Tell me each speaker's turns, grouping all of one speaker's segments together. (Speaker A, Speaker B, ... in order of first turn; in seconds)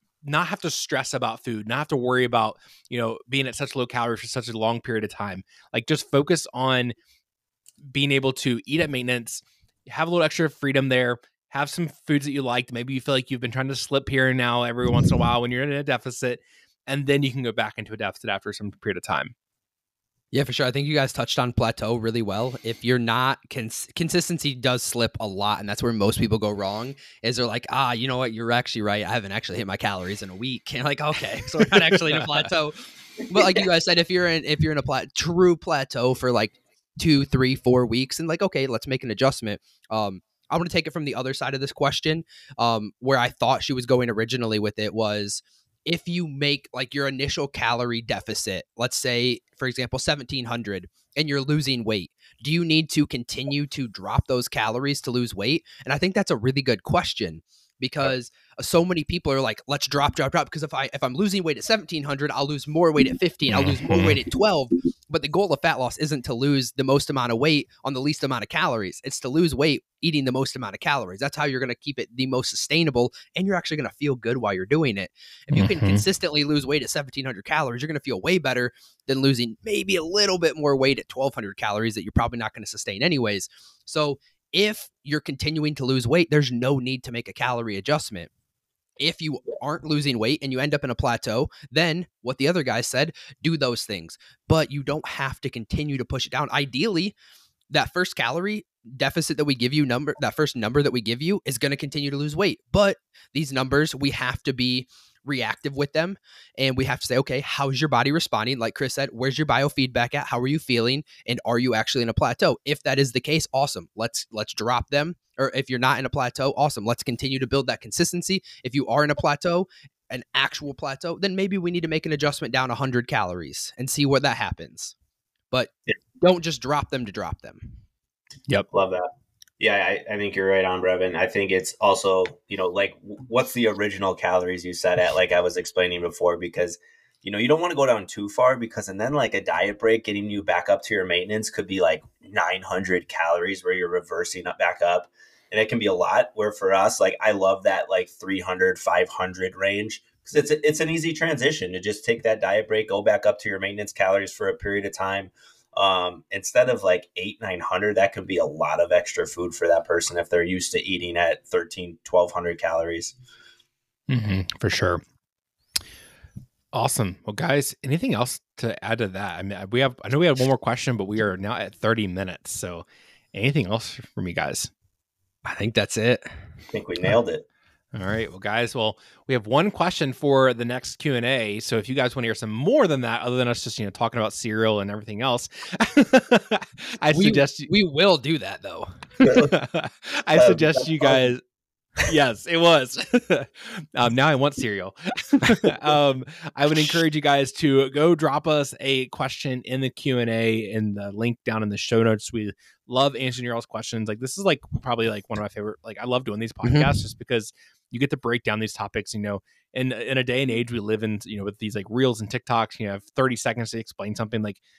Speaker A: 0.2-6.9, 7.8-19.3, 31.6-32.5, 63.5-64.2, 75.5-76.0, 164.1-165.0, 166.7-174.7, 177.9-187.7, 189.2-191.4, 192.0-214.6
Speaker B: 20.3-88.3, 89.0-97.1, 97.7-124.9, 125.5-127.7, 175.4-176.3, 187.1-188.9, 206.6-206.9
Speaker C: 128.7-129.1, 129.6-163.2, 176.7-177.4, 189.2-189.5, 190.3-191.3